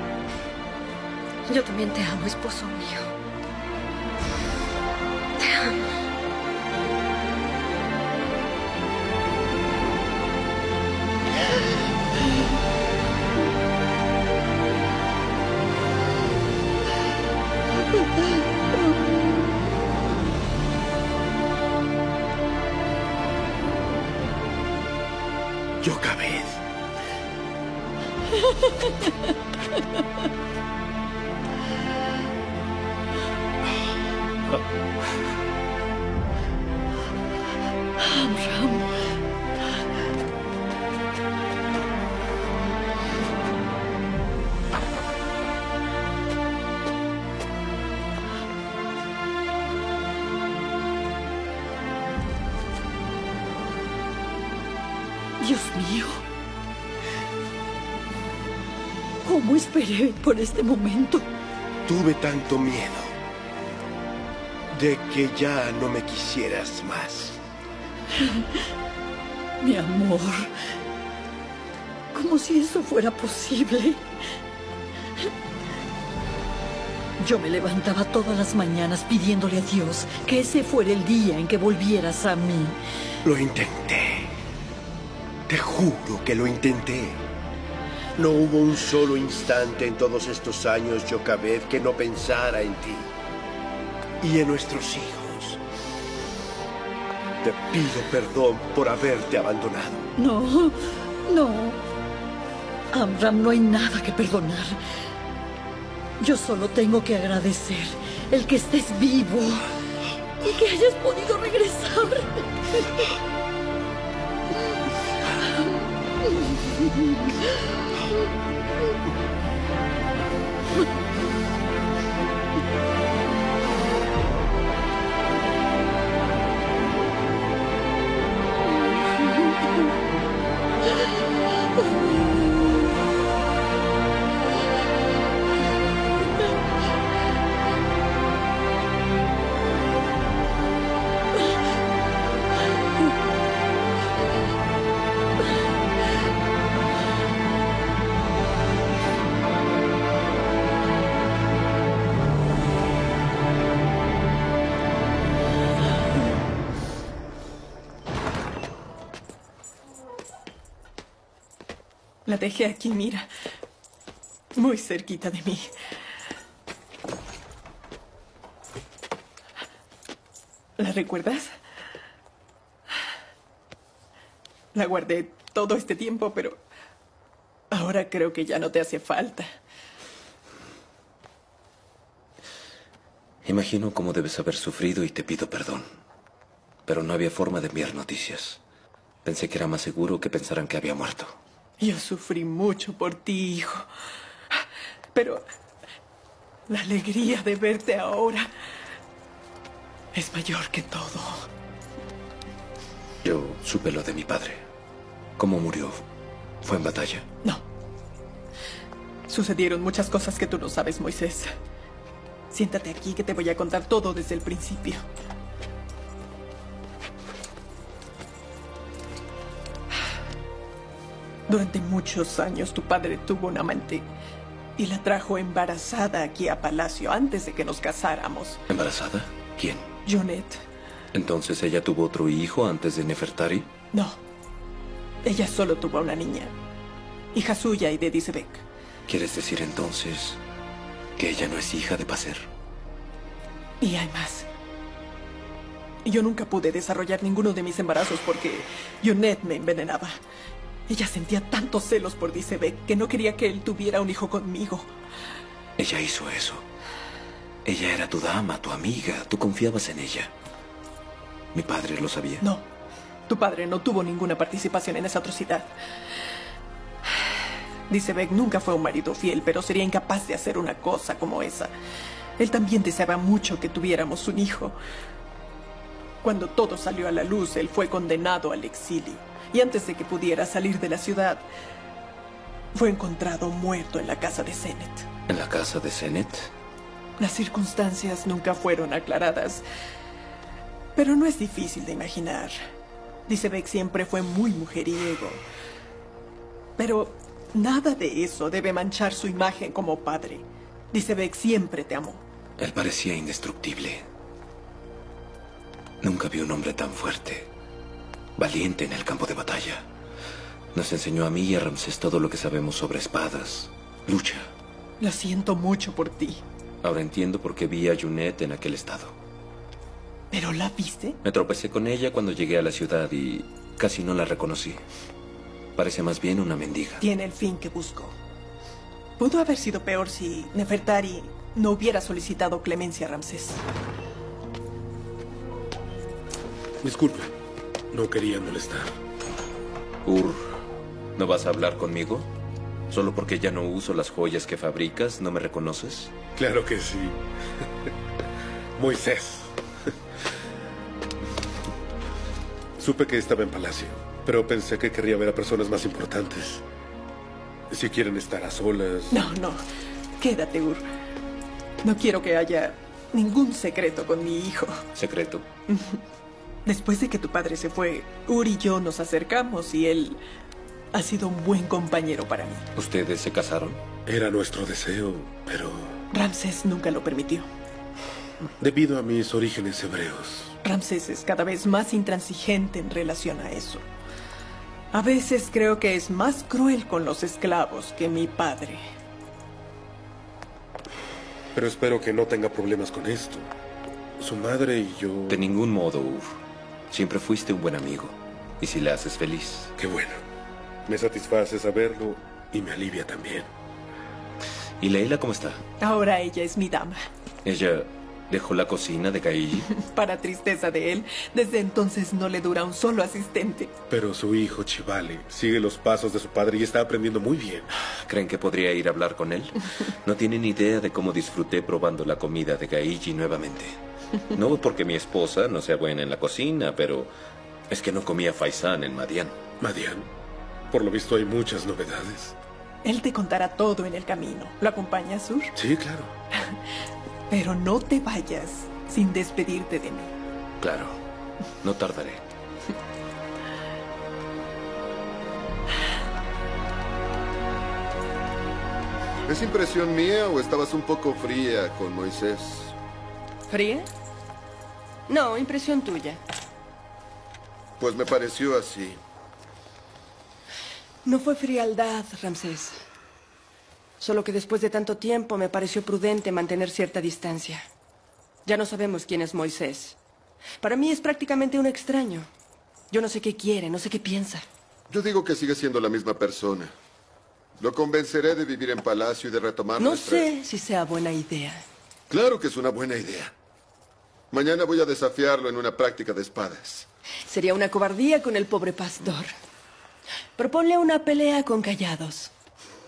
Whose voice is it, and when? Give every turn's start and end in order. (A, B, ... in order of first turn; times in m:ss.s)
0:25.8-0:26.5 A
0:55.4-0:56.2 B
0:59.2-1:01.2 B
1:01.8-1:03.1 A
1:04.7-1:07.4 A
1:09.6-1:10.5 B
1:12.1-1:14.0 B
1:17.2-1:22.8 B
1:23.2-1:24.3 A
1:25.5-1:27.2 A
1:28.2-1:33.1 A
1:34.2-1:35.6 A
1:37.4-1:40.1 A
1:40.2-1:41.8 B
1:42.9-1:44.8 B
1:46.2-1:49.7 B
1:50.4-1:52.8 B
2:42.2-2:43.3 C
2:44.6-2:45.7 C
2:50.8-2:51.5 C
2:54.7-2:56.6 C
2:57.7-2:59.5 C
3:03.4-3:05.9 D
3:06.8-3:08.6 D
3:09.2-3:11.4 D
3:11.8-3:13.9 C
3:15.1-3:15.4 C
3:16.7-3:18.5 C
3:20.1-3:21.5 C
3:23.2-3:24.6 D
3:25.4-3:26.0 D
3:26.6-3:27.2 D
3:29.3-3:31.5 C
3:32.5-3:35.0 C
3:41.5-3:44.0 C
3:44.8-3:48.6 C
3:48.7-3:49.8 D
3:50.0-3:50.6 C
3:51.1-3:53.7 D
3:53.9-3:54.2 C
3:55.2-3:56.5 C
3:57.3-3:58.6 C
3:59.1-4:00.4 D
4:01.2-4:02.4 D
4:03.8-4:04.5 C
4:06.0-4:10.2 C
4:10.9-4:14.9 C
4:15.8-4:16.6 D
4:17.6-4:20.3 D
4:21.5-4:22.4 D
4:22.4-4:22.6 C
4:23.3-4:25.7 C
4:27.9-4:31.7 C
4:32.4-4:34.8 C
4:36.2-4:41.4 C
4:42.7-4:45.1 C
4:45.3-4:46.5 D
4:47.2-4:49.6 C
4:51.0-4:52.6 C
4:53.3-4:55.4 C
4:56.8-5:02.2 C
5:02.6-5:04.0 D
5:06.0-5:07.5 D
5:08.4-5:09.8 D
5:10.7-5:14.5 D
5:15.0-5:16.4 C
5:16.8-5:19.2 D
5:20.3-5:21.2 C
5:21.2-5:24.8 D
5:25.8-5:27.0 D
5:27.0-5:28.2 C
5:29.2-5:33.6 C
5:38.3-5:38.9 E
5:40.0-5:40.6 D
5:41.2-5:42.3 D
5:42.9-5:46.1 D
5:46.4-5:47.1 E
5:52.8-5:54.0 E
5:54.7-5:56.6 E
5:57.7-5:59.0 E
5:59.1-5:59.6 C
6:00.2-6:00.8 C
6:01.8-6:04.8 C
6:04.9-6:05.4 D
6:05.7-6:06.0 C
6:06.6-6:10.2 C
6:10.9-6:12.6 C
6:12.8-6:13.8 D
6:14.3-6:15.3 E
6:16.1-6:17.5 C
6:18.6-6:20.1 E
6:20.6-6:23.8 C
6:24.9-6:28.8 C
6:31.6-6:33.4 E
6:34.2-6:35.4 E
6:35.3-6:36.3 D
6:36.9-6:39.7 D
6:39.8-6:40.1 E
6:40.9-6:43.5 E
6:44.8-6:45.6 D
6:45.8-6:47.0 C
6:47.4-6:49.7 D
6:49.7-6:53.7 C
6:54.7-6:56.4 E
6:58.0-7:03.8 D
7:04.3-7:07.1 D
7:07.7-7:09.4 D
7:09.6-7:10.0 E
7:10.8-7:12.3 E
7:12.8-7:15.5 C
7:17.3-7:20.1 C
7:20.6-7:21.0 D
7:21.6-7:22.2 D
7:29.3-7:32.8 F
7:33.5-7:33.9 G
7:35.1-7:36.2 G
7:37.8-7:39.0 F
7:41.0-7:42.8 G
7:44.0-7:47.6 G
7:48.4-7:50.0 G
7:50.6-7:52.3 G
7:52.9-7:54.4 G
7:54.9-7:56.7 F
7:57.6-8:00.3 F
7:59.8-8:01.6 G
8:02.1-8:03.3 F
8:04.3-8:06.9 F
8:07.3-8:09.3 G
8:10.4-8:12.3 G